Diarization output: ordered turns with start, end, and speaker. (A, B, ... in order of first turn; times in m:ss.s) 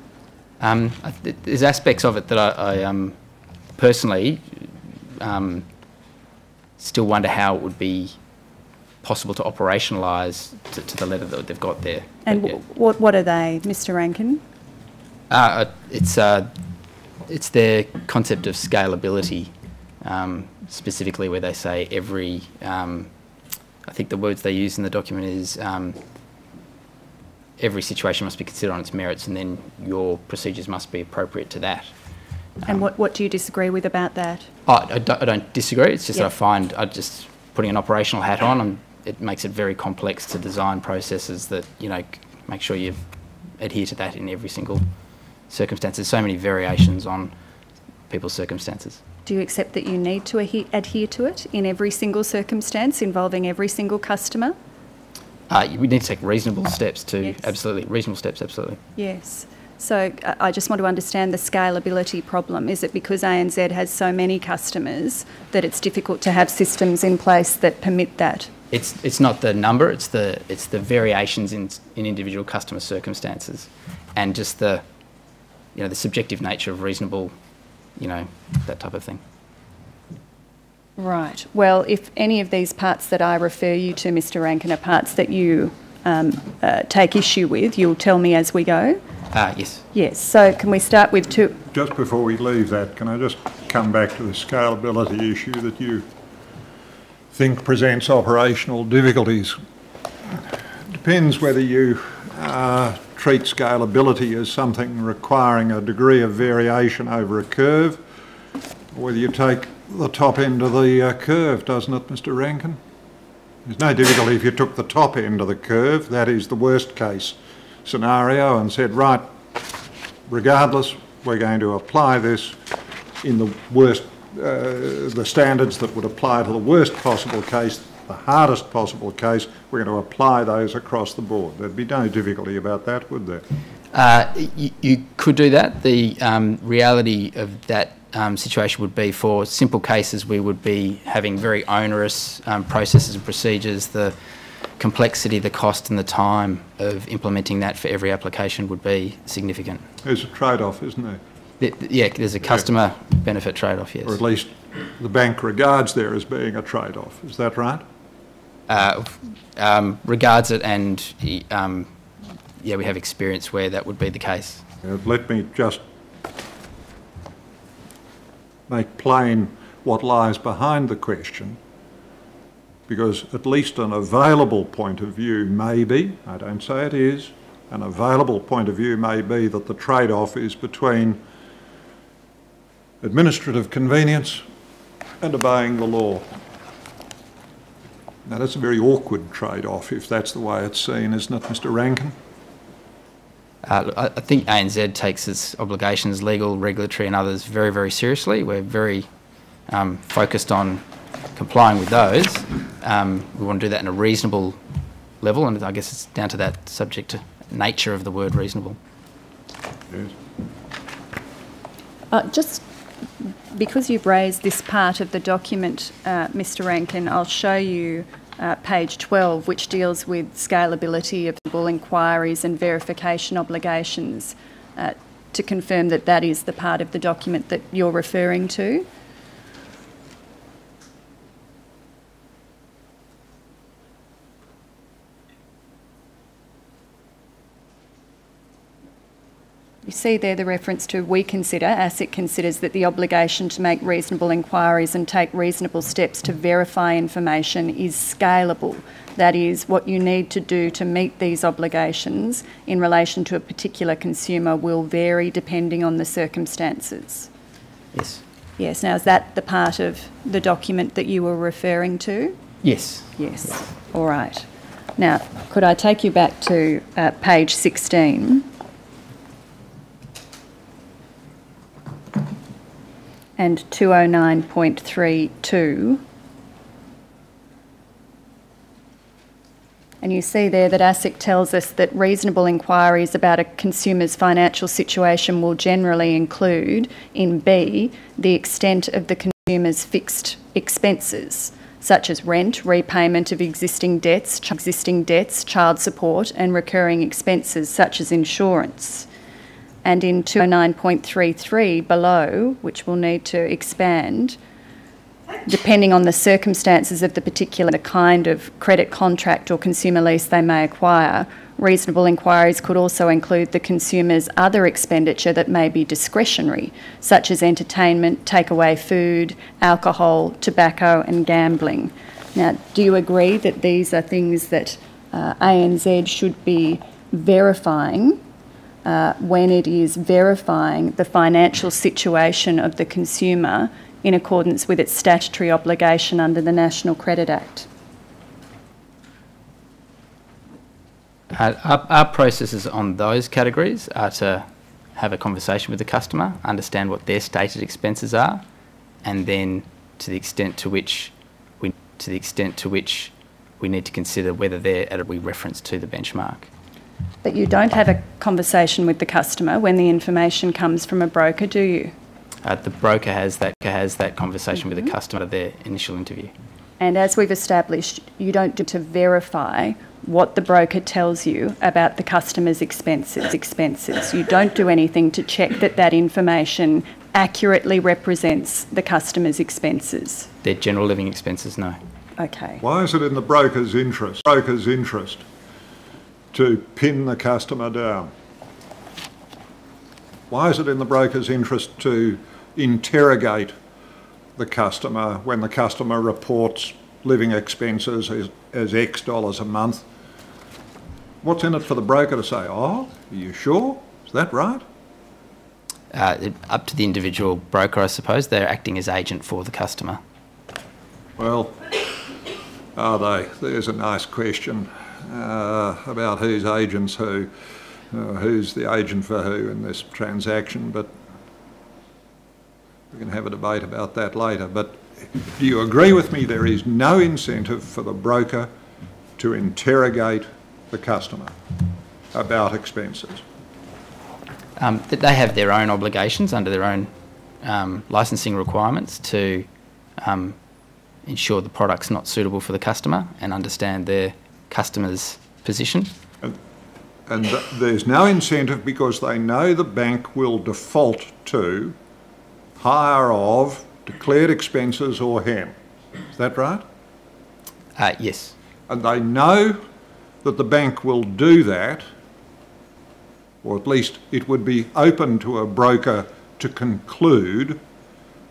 0:00.6-0:03.2 A
0:03.8-0:05.6 A
0:06.8-0:08.2 A
0:09.0-0:12.6 A
0:12.3-0:14.4 B
0:15.3-0:16.5 A
0:17.3-0:23.1 A
0:23.8-0:26.0 A
0:27.6-0:31.9 A
0:32.7-0:34.5 B
0:34.7-0:43.0 A
0:43.6-0:44.8 A
0:45.5-0:47.3 A
0:48.1-0:49.0 A
0:49.3-0:54.6 B
0:55.5-0:58.8 A
0:59.0-1:08.5 B
1:08.7-1:14.8 A
1:15.8-1:17.3 A
1:18.0-1:19.2 A
1:21.0-1:29.0 B
1:29.3-1:29.8 A
1:29.9-1:31.6 B
1:31.7-1:36.1 C
1:37.3-1:39.6 C
1:40.3-1:48.0 C
1:48.9-1:52.8 C
1:53.7-1:59.3 C
2:00.3-2:02.6 C
2:03.2-2:13.4 C
2:13.9-2:24.2 A
2:24.8-2:29.8 A
2:30.0-2:31.2 C
2:31.6-2:34.2 A
2:34.1-2:37.8 C
2:38.7-2:41.9 A
2:42.6-2:44.6 A
2:44.8-2:45.8 C
2:48.7-2:51.6 C
2:52.9-3:01.2 C
3:03.0-3:04.4 C
3:05.2-3:06.2 C
3:08.3-3:12.2 C
3:13.6-3:19.1 A
3:19.7-3:20.8 A
3:21.4-3:24.6 A
3:25.2-3:28.8 A
3:32.1-3:32.6 B
3:33.2-3:48.9 B
3:59.8-4:17.3 B
4:17.9-4:18.2 A
4:18.6-4:22.4 B
4:22.6-4:23.1 A
4:23.2-4:28.5 B
4:33.4-4:36.0 B
4:40.0-4:59.1 B
4:59.8-5:04.4 B
5:05.4-5:28.2 B
5:28.8-5:37.7 B
5:41.3-5:48.4 A
5:49.0-5:56.5 A
5:57.2-6:01.9 B
6:02.4-6:06.3 A
6:06.8-6:20.3 B
6:20.4-6:21.8 A
6:22.2-6:22.6 B
6:22.6-6:25.2 C
6:26.3-6:28.1 C
6:30.3-6:33.6 C
6:34.4-6:39.8 C
6:41.2-6:44.6 C
6:45.9-6:50.0 A
6:51.2-6:51.7 C
6:52.8-6:57.3 C
6:57.9-7:00.9 C
7:02.9-7:08.5 C
7:09.2-7:11.4 C
7:12.1-7:13.2 C
7:14.6-7:16.9 A
7:17.4-7:19.5 A
7:20.0-7:20.4 A
7:21.1-7:25.9 A
7:27.1-7:31.8 C
7:32.6-7:35.5 C
7:36.2-7:36.6 C
7:37.8-7:38.3 A
7:38.7-7:39.6 C
7:40.2-7:41.8 C
7:43.4-7:47.6 C